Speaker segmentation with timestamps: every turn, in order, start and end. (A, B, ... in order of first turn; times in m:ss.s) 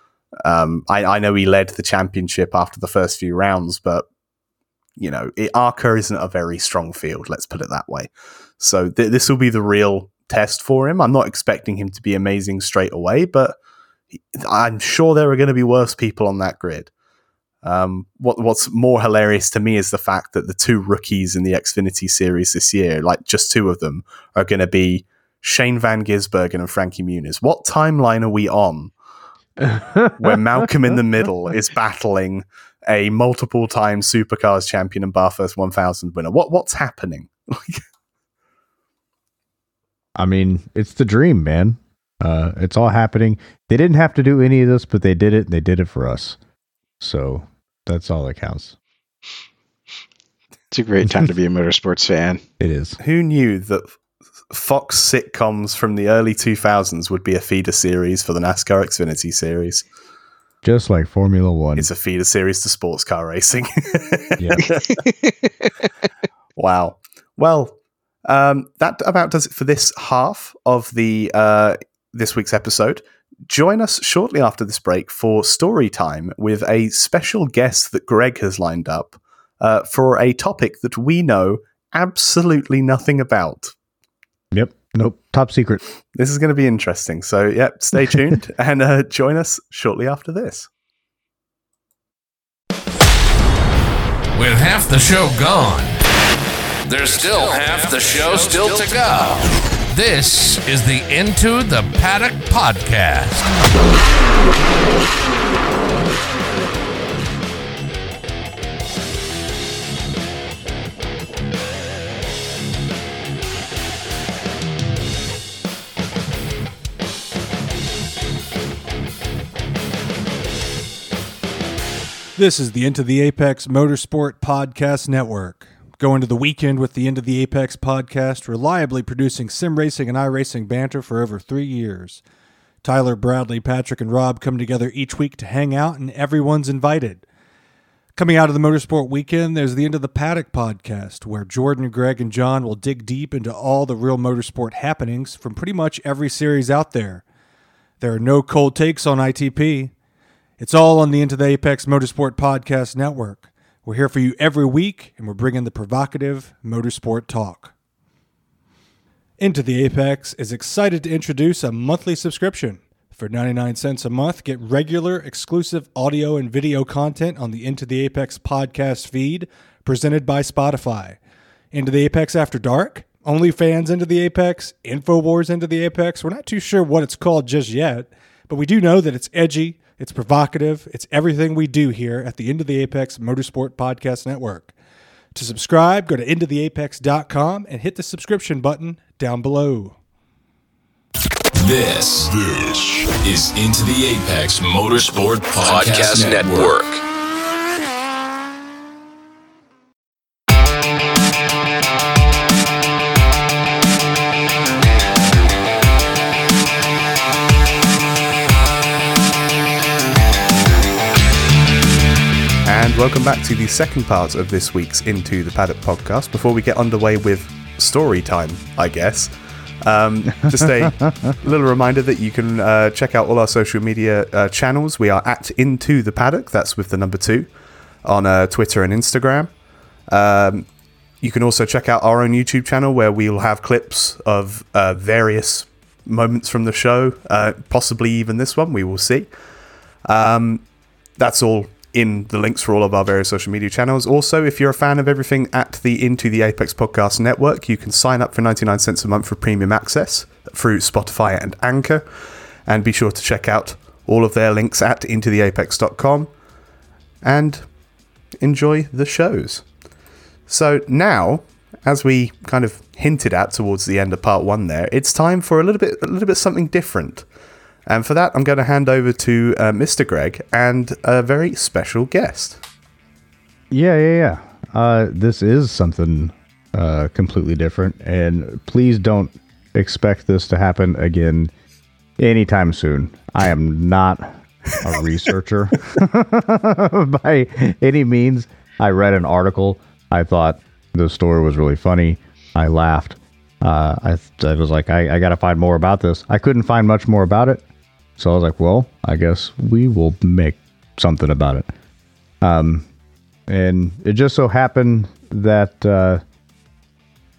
0:00.4-0:04.0 A
0:05.0-0:13.6 A
0:14.1-0:16.9 A
0:17.6-0:28.9 A
0:29.6-0:30.4 B
0:30.2-0:37.8 A
0:40.2-0:46.4 B
0:47.0-0:48.7 B
0:50.7-0:52.4 C
0:52.6-0:53.0 B
0:53.0-0:53.9 A
0:54.5-0:59.8 A
1:00.6-1:01.9 B
1:01.8-1:05.0 A
1:04.4-1:04.6 B
1:04.6-1:05.7 C
1:06.6-1:23.7 A
1:24.5-1:25.8 B
1:26.1-1:30.7 A
1:34.3-1:36.0 D
1:36.9-1:43.5 D
2:02.4-2:12.2 E
2:12.8-2:17.2 E
2:18.2-2:27.2 E
2:28.0-2:29.9 E
2:30.6-2:37.7 E
2:39.4-2:51.2 E
2:51.7-3:04.7 E
3:05.3-3:10.0 E
3:11.6-3:17.0 F
3:15.6-3:16.9 D
3:32.6-3:47.5 A
3:40.4-3:41.3 B
3:48.0-3:49.5 A
3:50.1-3:50.7 A
3:51.2-3:59.3 A
4:00.0-4:00.6 A
4:01.2-4:12.0 A
4:12.7-4:16.3 A
4:17.2-4:17.6 A
4:18.4-4:19.6 A
4:20.5-4:27.2 A
4:27.8-4:32.6 A
4:33.7-4:41.5 B
4:42.2-4:57.6 B
4:58.2-5:01.7 B
5:02.4-5:02.9 B
5:03.5-5:06.2 B